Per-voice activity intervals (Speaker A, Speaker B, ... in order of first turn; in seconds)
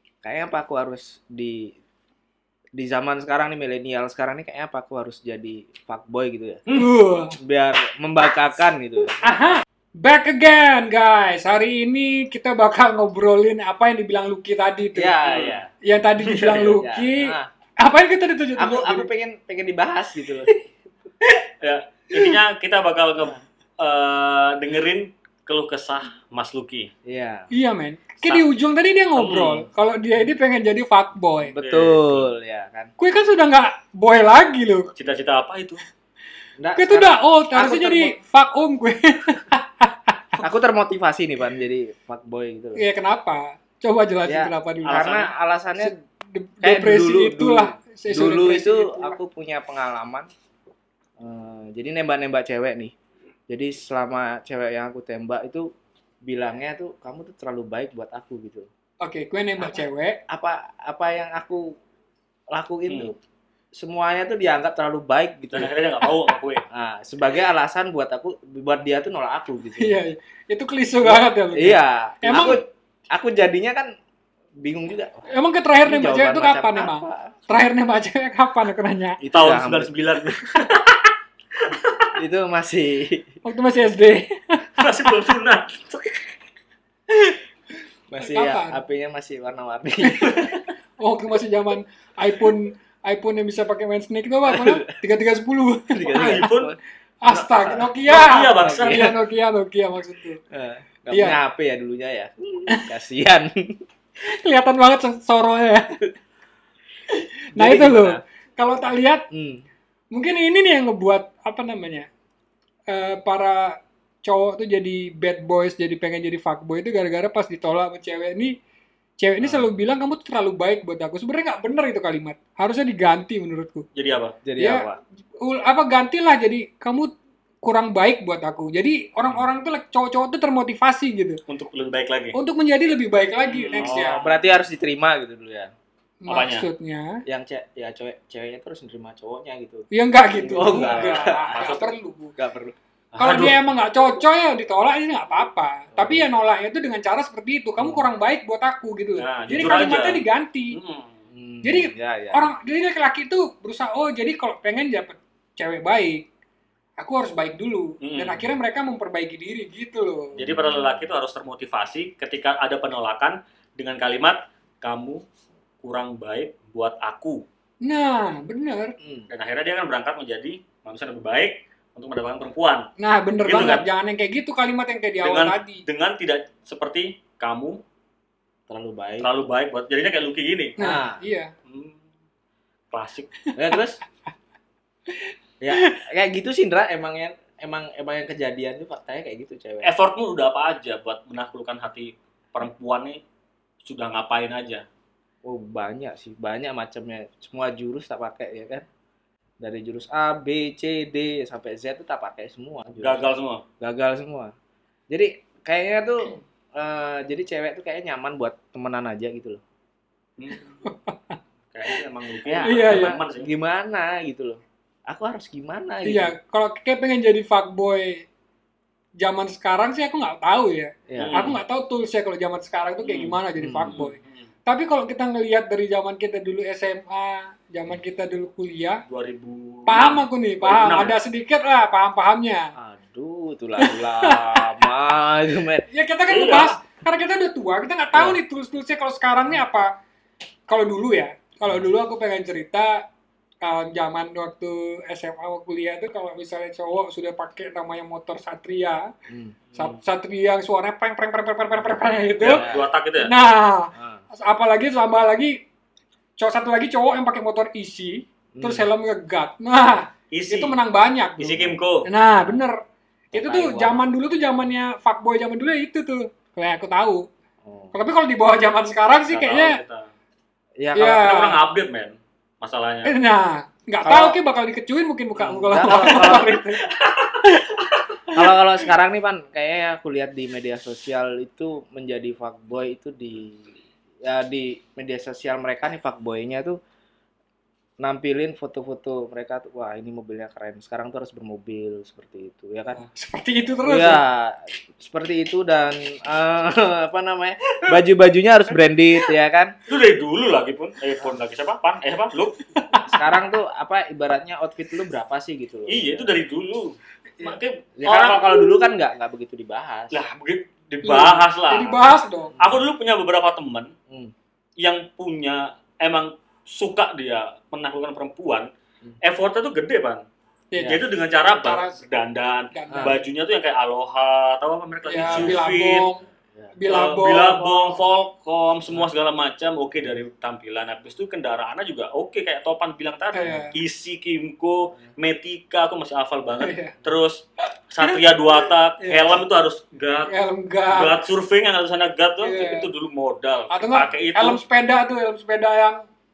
Speaker A: 0.2-1.7, 2.8-6.6, 7.4-9.3, 15.0-15.7, 16.5-17.5, 18.6-20.5, 27.1-27.5, 31.5-32.9, 36.6-38.2, 40.4-42.8, 44.3-45.9, 46.6-50.3, 51.2-52.9, 53.5-55.7, 56.2-58.7, 60.3-61.8, 62.5-63.2, 63.7-65.8, 66.7-70.0, 71.0-73.9, 74.6-75.3, 75.8-77.4, 79.2-80.0, 82.2-83.3, 88.1-90.6, 94.5-94.9, 95.9-96.8, 97.3-97.9, 98.5-99.1, 100.5-103.8, 107.5-108.2, 109.3-109.6, 119.4-119.7, 124.5-125.0, 133.8-135.7, 137.2-139.9, 140.4-141.7, 142.4-142.8, 145.9-146.2, 147.8-148.1, 151.3-152.5, 160.3-161.1, 169.0-169.3, 178.7-179.3, 180.8-181.2, 183.5-184.0, 185.6-189.9, 195.4-198.8, 199.6-203.2, 203.8-204.5, 205.1-209.6, 212.5-216.3, 221.1-221.5, 223.6-224.0, 232.8-235.9, 238.1-238.4, 249.3-249.6, 251.8-252.8, 253.9-254.2, 258.6-258.9, 262.4-262.6, 263.3-264.0, 267.6-267.9, 270.8-271.2, 274.0-274.4, 275.4-276.6, 278.3-283.7, 284.2-286.8, 288.0-293.0, 293.9-299.7, 303.0-306.3, 308.0-310.2, 312.5-312.9, 322.9-323.2, 325.2-325.7, 333.4-333.6
Speaker B: 6.7-6.9, 15.3-15.6, 16.2-16.8, 21.6-26.9, 29.1-29.7, 31.6-32.3, 35.0-35.8, 62.9-63.1, 65.5-66.6, 79.3-81.0, 81.6-82.1, 84.8-86.2, 96.1-96.7, 98.0-99.2, 124.0-124.4, 131.5-132.3, 133.5-134.3, 136.3-136.7, 140.6-141.9, 143.1-143.6, 149.2-151.2, 158.0-158.4, 160.3-165.2, 165.8-167.4, 169.3-173.8, 175.2-177.8, 179.2-180.8, 181.7-182.0, 182.9-183.3, 189.8-193.2, 193.8-194.8, 203.0-203.6, 210.4-210.8, 211.7-213.5, 221.2-221.6, 223.0-223.3, 223.9-224.4, 229.1-231.2, 236.2-236.8, 249.8-250.0, 252.4-253.3, 260.3-260.8, 261.4-262.1, 269.3-270.1, 271.2-273.2, 277.0-277.4, 299.9-302.6, 305.9-308.6, 310.1-312.1, 312.6-313.9, 314.8-318.7, 319.2-320.2, 320.8-326.1, 326.9-340.3, 340.9-344.6
Speaker C: 6.7-7.4, 9.2-15.2, 15.8-19.1, 27.5-31.6, 33.0-34.9, 36.8-40.2, 42.8-49.2, 59.0-60.2, 69.8-72.6, 75.3-79.2, 83.5-85.1, 88.2-88.8, 90.0-90.4, 91.0-96.5, 97.2-100.4, 104.3-106.0, 107.1-109.2, 110.1-112.1, 112.9-118.6, 119.2-123.9, 124.6-124.9, 125.4-131.4, 132.3-134.3, 136.2-137.2, 139.9-142.3, 143.2-150.8, 151.6-156.2, 157.0-160.3, 167.8-168.9, 173.0-175.8, 180.8-181.5, 210.8-211.4, 212.7-213.2, 216.0-218.2, 219.2-229.0, 229.9-232.7, 233.8-234.9, 235.9-239.9, 240.7-243.1, 243.6-249.1, 249.8-255.6, 256.4-262.8, 263.3-267.3, 267.9-269.8, 270.9-271.6, 273.1-276.8, 293.1-294.2, 302.8-303.2, 311.0-312.6, 320.7-322.0, 322.7-323.2, 325.1-326.2, 326.8-328.0, 333.3-333.8, 336.6-337.0, 338.0-339.3, 340.3-341.2, 342.4-342.9, 343.7-346.0